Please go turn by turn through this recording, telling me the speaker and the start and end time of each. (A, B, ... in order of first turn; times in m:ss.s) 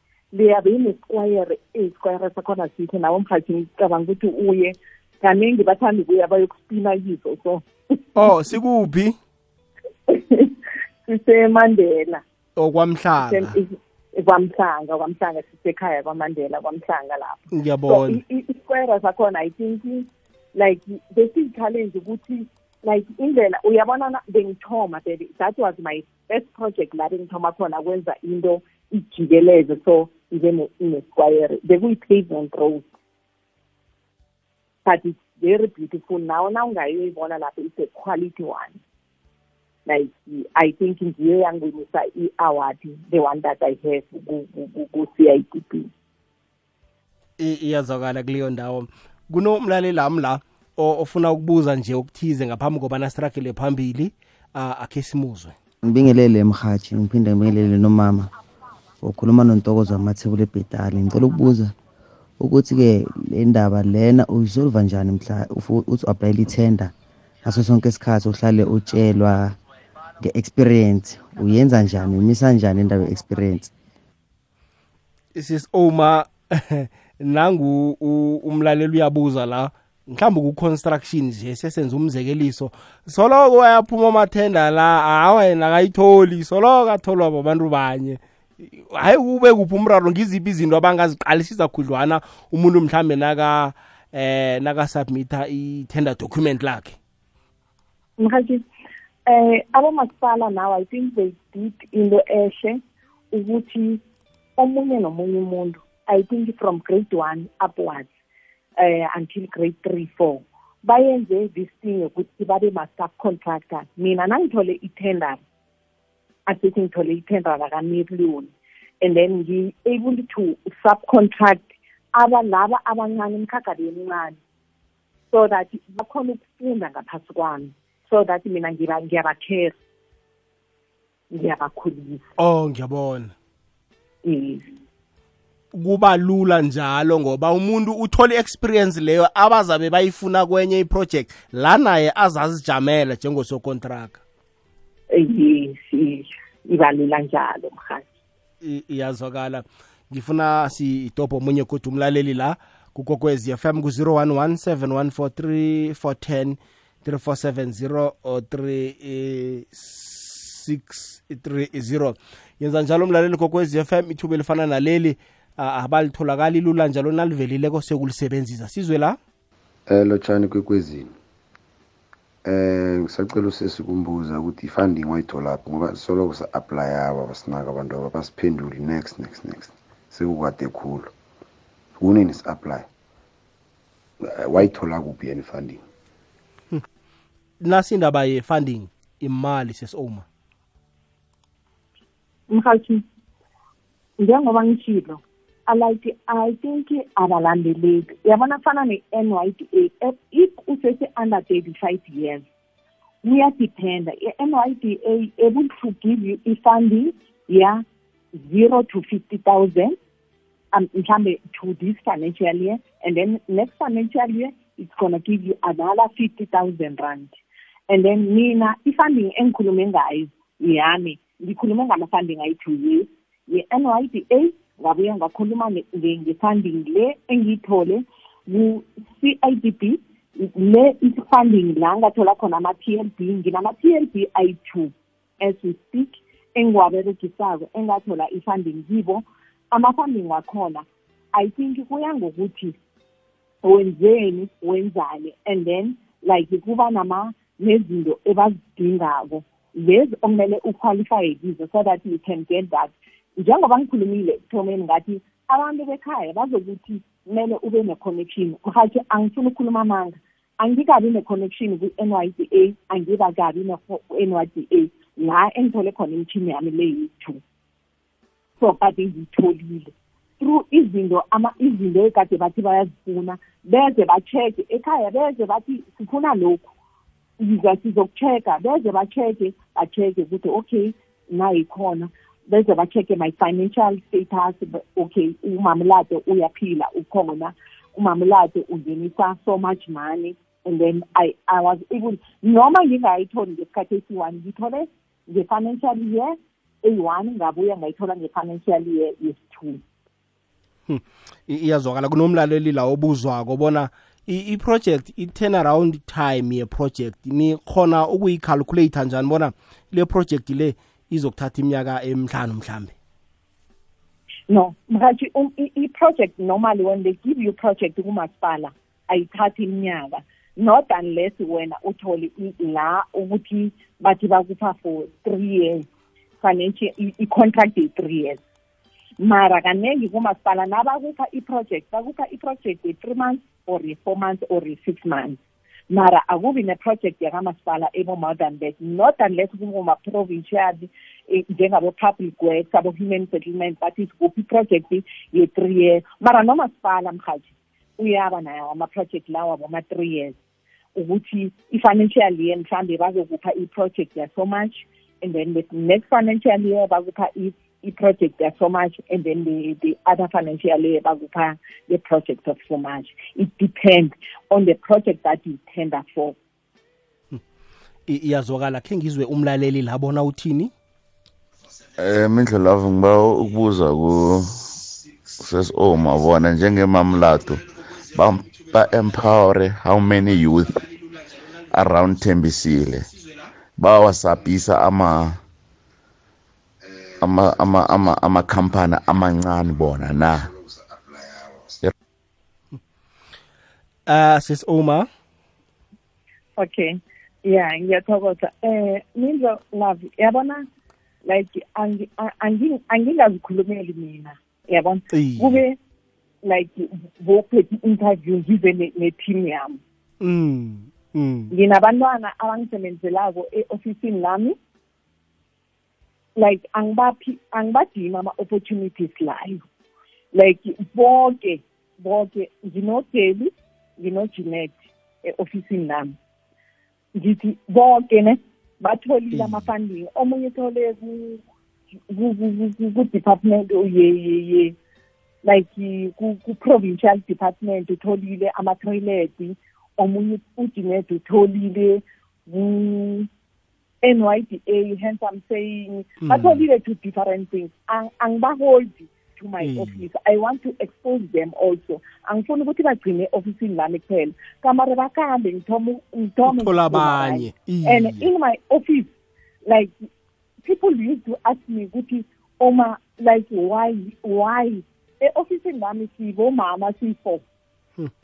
0:00.3-0:08.1 A
0:08.2-0:09.2 B
0:10.1-0:10.5 A
0:11.1-0:12.2 A
0:12.6-0:13.5 B
0:13.2-0:32.8 A
0:17.5-0:18.2 B
0:34.8-0:38.8 A
0:39.8-0:45.9 A
0:47.4-0:55.5 B
0:55.8-0:58.3 C
0:59.0-1:01.7 C
1:02.4-1:06.9 C
1:07.4-1:09.6 C
1:10.2-1:13.7 C
1:15.3-1:37.0 B
1:38.2-1:38.6 A
1:39.2-1:42.8 A
1:43.3-1:44.0 A
1:44.6-1:48.1 A
1:48.8-1:55.4 A
1:56.5-2:04.4 A
2:05.3-2:09.7 A
2:11.3-2:12.2 A
2:12.4-2:13.3 B
2:14.2-2:14.7 A
2:15.7-2:24.2 B
2:25.1-2:28.0 A
2:28.6-2:49.2 B
2:49.9-2:51.1 D
2:52.4-3:01.1 D
3:02.0-3:02.9 D
3:04.2-3:05.8 D
3:07.6-3:10.2 B
3:12.5-3:13.0 A
3:14.2-3:22.4 A
3:23.2-3:27.8 A
3:28.3-3:30.0 A
3:30.7-3:37.3 A
3:37.9-4:02.8 A
4:03.6-4:27.4 A
4:28.6-4:36.6 A
4:37.4-4:59.8 A
5:00.9-5:12.9 B
5:14.5-5:25.8 A
5:26.4-5:28.4 A
5:29.2-5:35.4 A
5:35.9-5:50.3 A
5:50.9-6:06.4 A
6:08.1-6:10.7 B
6:12.0-6:14.9 E
6:15.4-6:20.9 E
6:21.7-6:23.1 E
6:23.8-6:25.4 E
6:27.2-6:30.5 E
6:34.1-6:35.1 B
6:36.6-6:40.6 A
6:41.2-6:45.8 A
6:45.1-6:45.6 B
6:46.4-6:49.8 A
6:50.2-6:51.5 B
6:51.5-6:54.6 A
6:56.4-6:59.6 A
7:00.3-7:06.1 A
7:07.2-7:11.4 A
7:09.3-7:09.6 B
7:12.1-7:14.7 A
7:15.4-7:23.3 A
7:24.0-7:39.1 A
7:26.2-7:26.6 B
7:29.6-7:30.0 B
7:36.4-7:38.3 B
7:39.6-7:40.0 A
7:40.6-7:47.4 A